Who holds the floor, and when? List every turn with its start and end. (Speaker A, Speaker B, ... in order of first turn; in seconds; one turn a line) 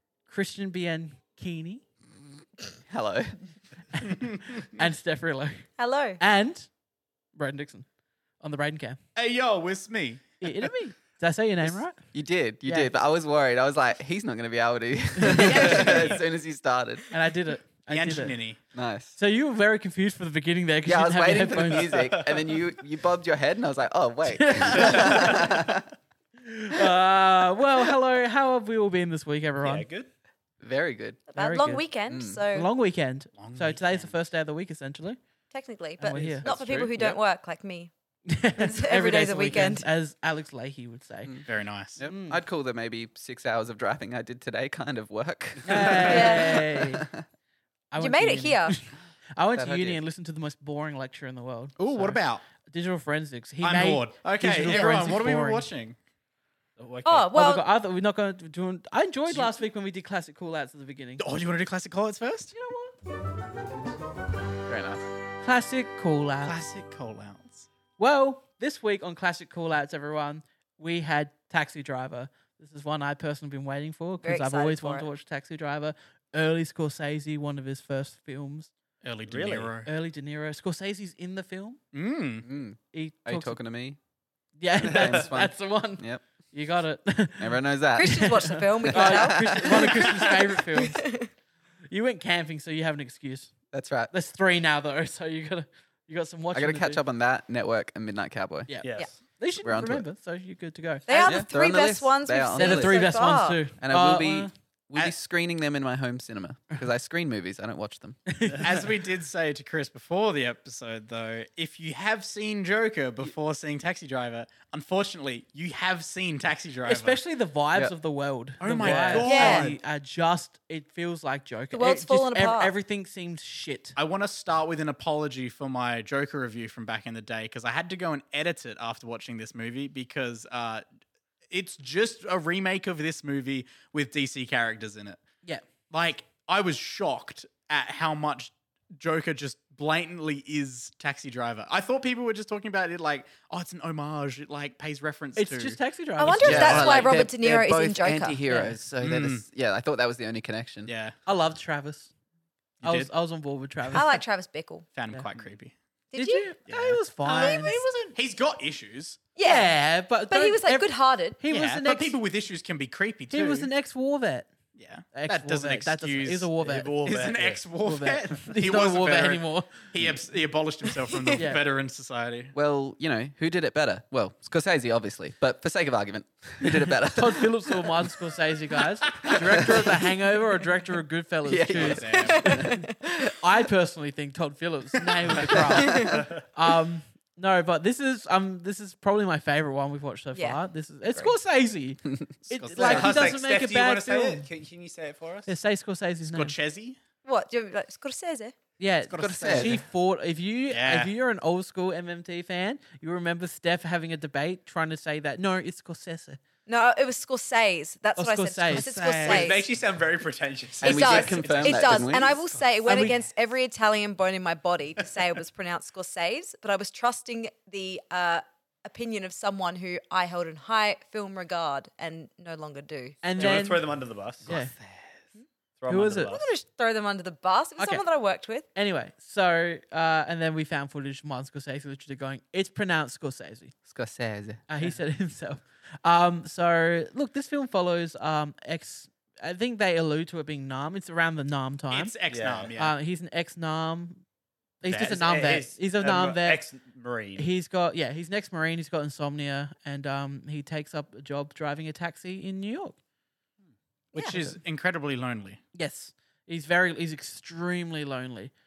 Speaker A: 0.3-1.8
Speaker B: 2.9-3.3
Speaker A: 3.9-6.7
Speaker C: 5.8-6.2
Speaker A: 7.3-7.9
Speaker A: 8.4-9.0
Speaker D: 9.1-10.5
Speaker A: 10.4-12.0
Speaker B: 11.6-17.0
Speaker A: 12.6-12.9
Speaker A: 15.2-16.1
Speaker D: 15.3-16.2
Speaker A: 17.1-18.4
Speaker D: 17.9-18.6
Speaker B: 18.7-19.1
Speaker A: 19.2-22.0
Speaker B: 20.8-25.9
Speaker A: 24.3-25.4
Speaker E: 24.8-25.2
Speaker A: 26.4-29.8
Speaker E: 29.6-30.1
Speaker B: 30.6-31.3
Speaker C: 31.3-32.7
Speaker A: 31.3-31.8
Speaker B: 32.1-32.4
Speaker A: 32.5-35.2
Speaker D: 33.4-34.1
Speaker C: 35.5-37.9
Speaker A: 36.0-36.5
Speaker B: 36.4-37.2
Speaker A: 38.2-41.4
Speaker C: 38.6-39.8
Speaker D: 41.5-42.0
Speaker B: 42.0-47.2
Speaker A: 42.0-42.4
Speaker A: 45.6-47.0
Speaker C: 46.1-46.6
Speaker A: 47.9-55.7
Speaker C: 48.0-48.8
Speaker B: 49.5-50.0
Speaker D: 51.8-52.4
Speaker D: 53.6-56.0
Speaker C: 54.7-55.1
Speaker D: 56.8-57.3
Speaker C: 57.0-57.6
Speaker A: 57.3-61.2
Speaker D: 59.3-59.6
Speaker D: 61.2-62.5
Speaker A: 62.5-62.9
Speaker B: 64.7-65.0
Speaker A: 65.4-66.6
Speaker D: 66.4-67.7
Speaker A: 68.0-78.7
Speaker C: 74.2-75.0
Speaker D: 79.0-79.9
Speaker E: 79.3-79.7
Speaker A: 79.8-81.8
Speaker D: 81.9-82.4
Speaker B: 82.4-84.0
Speaker A: 82.9-83.6
Speaker A: 84.6-91.1
Speaker B: 84.8-86.2
Speaker B: 87.4-89.8
Speaker C: 88.0-91.3
Speaker A: 91.9-93.5
Speaker B: 93.7-94.1
Speaker A: 94.1-97.0
Speaker B: 96.5-98.7
Speaker A: 98.7-101.4
Speaker E: 98.8-99.1
Speaker B: 99.6-100.0
Speaker C: 101.1-103.6
Speaker B: 101.2-103.1
Speaker A: 102.5-104.5
Speaker B: 103.8-108.4
Speaker A: 108.3-108.8
Speaker D: 108.6-117.2
Speaker A: 116.8-124.0
Speaker D: 118.6-119.8
Speaker C: 119.2-119.7
Speaker C: 121.7-122.7
Speaker D: 124.0-130.8
Speaker D: 131.5-135.2
Speaker D: 135.9-145.8
Speaker A: 145.3-146.8
Speaker C: 146.2-148.4
Speaker D: 146.3-147.1
Speaker B: 146.4-150.9
Speaker A: 148.5-148.8
Speaker D: 149.0-149.4
Speaker D: 150.9-151.2
Speaker A: 151.2-152.1
Speaker D: 152.8-153.1
Speaker A: 152.8-154.2
Speaker C: 153.9-154.8
Speaker D: 154.9-155.7
Speaker A: 155.1-155.4
Speaker C: 156.1-156.5
Speaker A: 156.1-157.9
Speaker D: 156.7-159.2
Speaker C: 157.3-158.1
Speaker C: 159.3-159.8
Speaker A: 159.4-162.2
Speaker C: 160.3-161.4
Speaker D: 161.5-163.7
Speaker A: 163.3-164.5
Speaker D: 164.8-172.5
Speaker A: 165.1-166.9
Speaker E: 166.6-167.6
Speaker A: 167.8-169.9
Speaker A: 171.3-171.6
Speaker B: 172.5-177.9
Speaker A: 176.6-194.5
Speaker B: 179.2-180.1
Speaker B: 181.4-183.3
Speaker D: 181.7-182.5
Speaker C: 182.2-182.9
Speaker C: 185.8-186.2
Speaker C: 190.3-191.3
Speaker D: 192.5-193.4
Speaker E: 192.8-195.5
Speaker A: 195.4-196.5
Speaker D: 196.2-197.0
Speaker C: 197.2-198.6
Speaker A: 198.8-206.4
Speaker D: 199.1-199.8
Speaker B: 199.2-199.8
Speaker D: 200.7-201.1
Speaker C: 206.7-209.6
Speaker A: 208.2-209.5
Speaker E: 209.2-212.3
Speaker C: 210.8-223.6
Speaker B: 210.8-212.4
Speaker A: 212.8-213.2
Speaker A: 223.2-223.8
Speaker E: 223.4-224.5
Speaker A: 224.5-224.7
Speaker D: 224.5-225.1
Speaker E: 225.8-226.5
Speaker A: 225.9-226.3
Speaker C: 226.3-228.7
Speaker A: 227.8-228.0
Speaker A: 228.7-233.7
Speaker B: 233.8-234.6
Speaker A: 234.7-242.1
Speaker D: 241.9-242.9
Speaker E: 242.3-242.7
Speaker A: 242.8-244.2
Speaker A: 244.8-246.6
Speaker E: 244.9-247.5
Speaker A: 247.3-253.0
Speaker D: 254.1-255.6
Speaker A: 254.3-254.6
Speaker A: 255.7-258.5